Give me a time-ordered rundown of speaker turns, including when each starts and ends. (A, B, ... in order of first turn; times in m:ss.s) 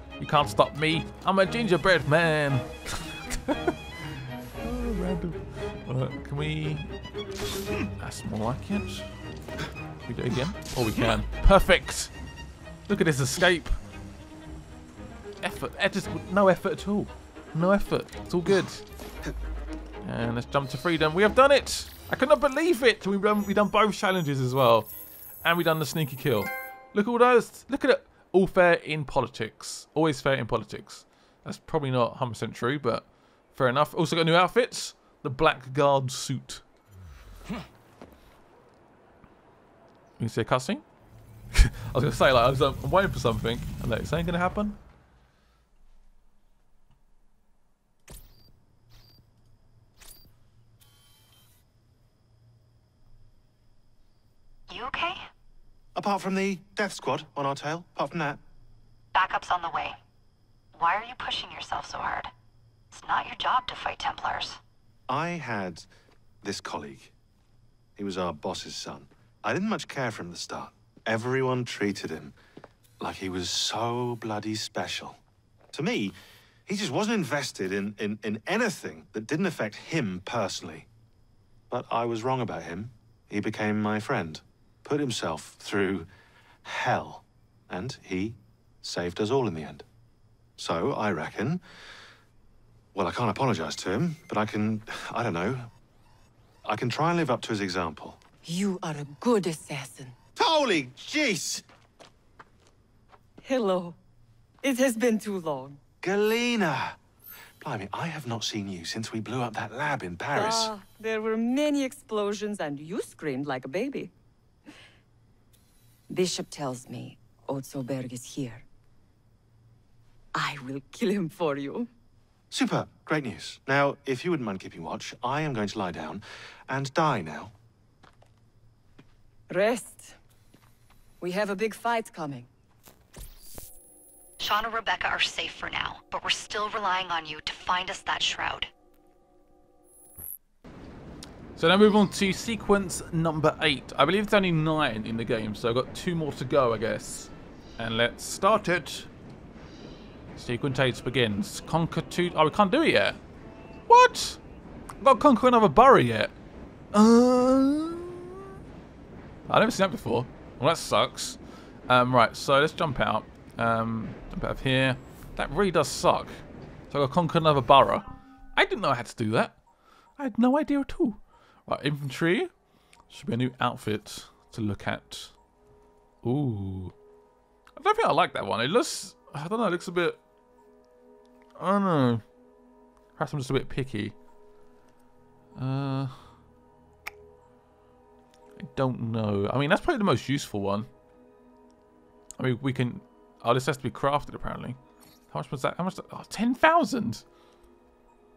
0:00.2-0:06.9 A
0:08.0-0:09.1 A
0:10.1-0:12.1 A
0:12.9-0:13.8 A
0:15.4-0:18.8 A
0:20.0-0:24.9 A
0:25.4-0:36.6 A
0:40.2-0:40.8 A
0:41.5-0:44.8 A
0:54.7-0:55.3 B
0:56.0-0:58.4 C
0:59.1-1:00.0 B
1:00.8-1:02.3 B
1:02.9-1:04.6 B
1:05.1-1:05.9 C
1:06.4-1:07.1 C
1:08.0-1:12.4 C
1:13.0-1:15.2 C
1:15.7-1:16.2 C
1:16.7-1:20.9 C
1:21.7-1:26.1 C
1:26.6-1:29.8 C
1:30.6-1:31.6 C
1:32.9-1:35.7 C
1:36.6-1:38.2 C
1:38.4-1:40.2 D
1:40.4-1:41.6 C
1:43.4-1:44.0 D
1:44.6-1:45.8 D
1:46.0-1:47.0 C
1:47.6-1:50.7 C
1:50.3-1:54.1 D
1:56.1-1:58.6 D
2:00.3-2:01.9 D
2:02.5-2:07.5 C
2:09.5-2:10.2 D
2:11.2-2:12.5 D
2:14.4-2:18.7 B
2:21.6-2:29.1 A
2:30.4-2:33.2 A
2:33.9-2:34.4 A
2:35.0-2:36.3 A
2:36.9-2:38.4 A
2:39.5-2:49.6 A
2:50.2-2:52.5 A
2:53.1-2:55.3 A
2:56.2-2:57.0 A
2:57.8-3:00.2 A
3:01.6-3:02.2 A
3:03.2-3:04.2 A
3:05.6-3:06.2 A
3:08.6-3:10.9 A
3:12.4-3:14.8 A
3:15.3-3:17.2 A